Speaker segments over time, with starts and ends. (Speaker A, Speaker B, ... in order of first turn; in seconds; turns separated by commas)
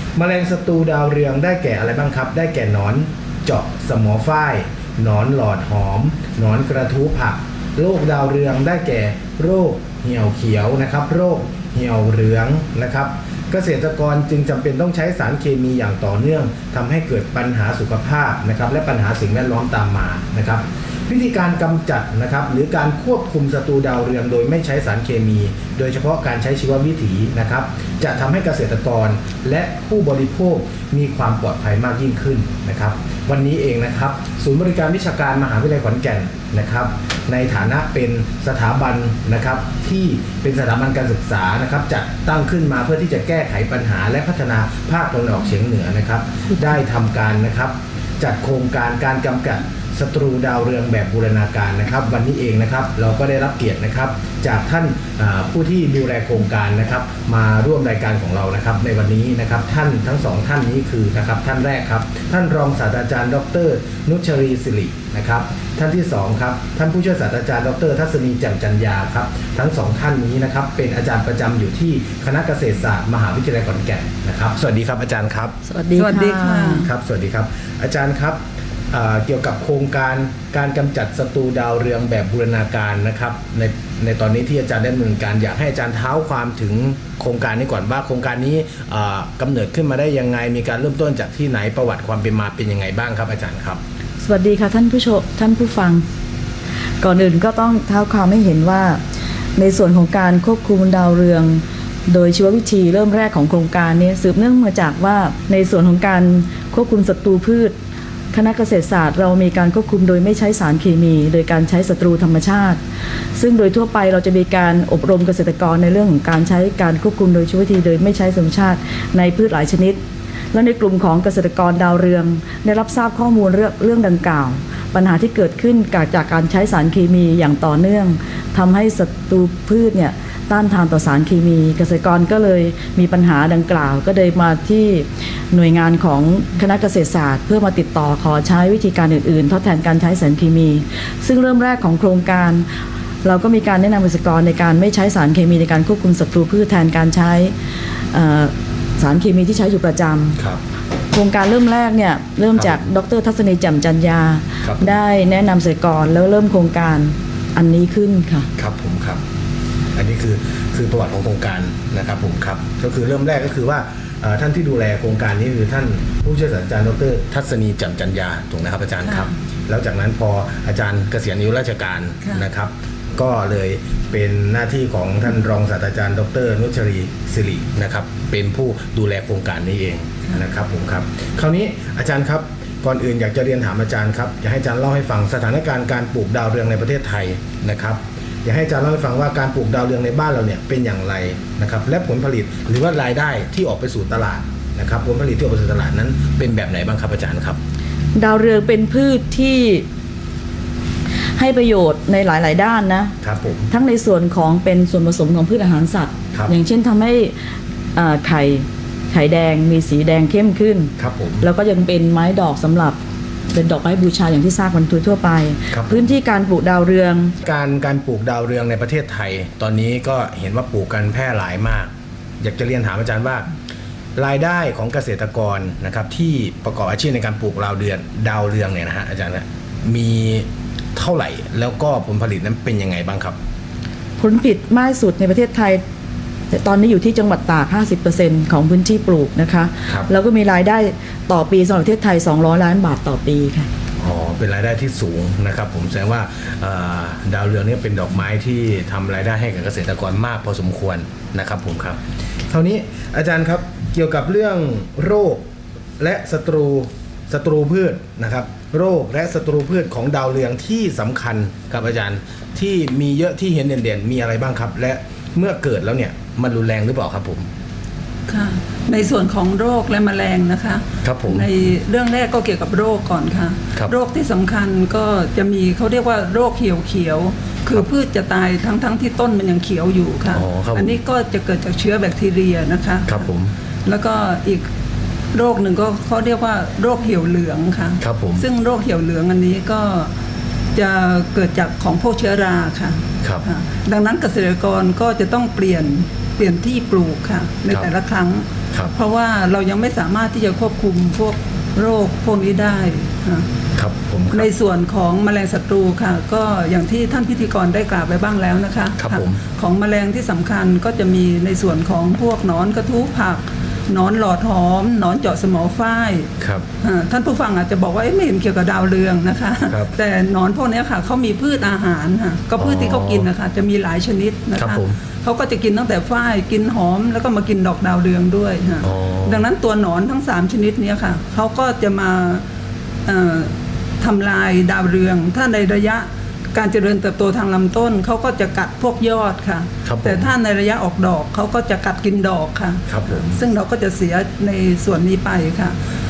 Speaker A: 0.2-75.6, Speaker B: 75.6-76.9, Speaker C: 76.0-76.9, Speaker A: 76.7-78.4, Speaker A: 78.9-93.8, Speaker B: 94.2-96.0, Speaker B: 97.0-99.0, Speaker B: 99.6-107.8, Speaker B: 108.3-112.8, Speaker B: 113.4-120.0, Speaker B: 120.5-142.7, Speaker B: 143.2-147.5, Speaker B: 148.1-150.4, Speaker B: 151.1-158.5, Speaker A: 152.6-152.8, Speaker A: 154.6-155.0, Speaker A: 158.6-159.2, Speaker A: 159.9-197.6, Speaker C: 169.1-169.3, Speaker B: 198.2-199.9, Speaker B: 201.4-203.1, Speaker A: 203.2-203.7, Speaker B: 203.7-207.4, Speaker B: 208.0-213.0, Speaker A: 211.0-211.5, Speaker B: 213.5-217.4, Speaker A: 215.7-216.1, Speaker A: 217.4-223.5, Speaker A: 224.2-233.4, Speaker B: 234.2-235.8, Speaker B: 236.5-243.7, Speaker A: 244.0-255.5, Speaker A: 256.0-267.5, Speaker C: 268.3-283.2, Speaker A: 271.0-271.5, Speaker A: 280.3-281.0, Speaker A: 283.1-283.5, Speaker C: 283.9-284.7, Speaker C: 285.3-290.1, Speaker A: 288.0-288.4, Speaker C: 290.8-298.4, Speaker C: 299.0-303.5, Speaker A: 303.8-304.5, Speaker C: 304.3-316.3, Speaker A: 309.0-309.4, Speaker A: 316.4-316.7, Speaker C: 316.8-332.4, Speaker A: 319.7-319.9, Speaker A: 322.6-323.3, Speaker A: 324.6-325.0, Speaker A: 328.8-329.5, Speaker C: 333.1-345.8, Speaker A: 339.9-340.3, Speaker A: 342.9-343.4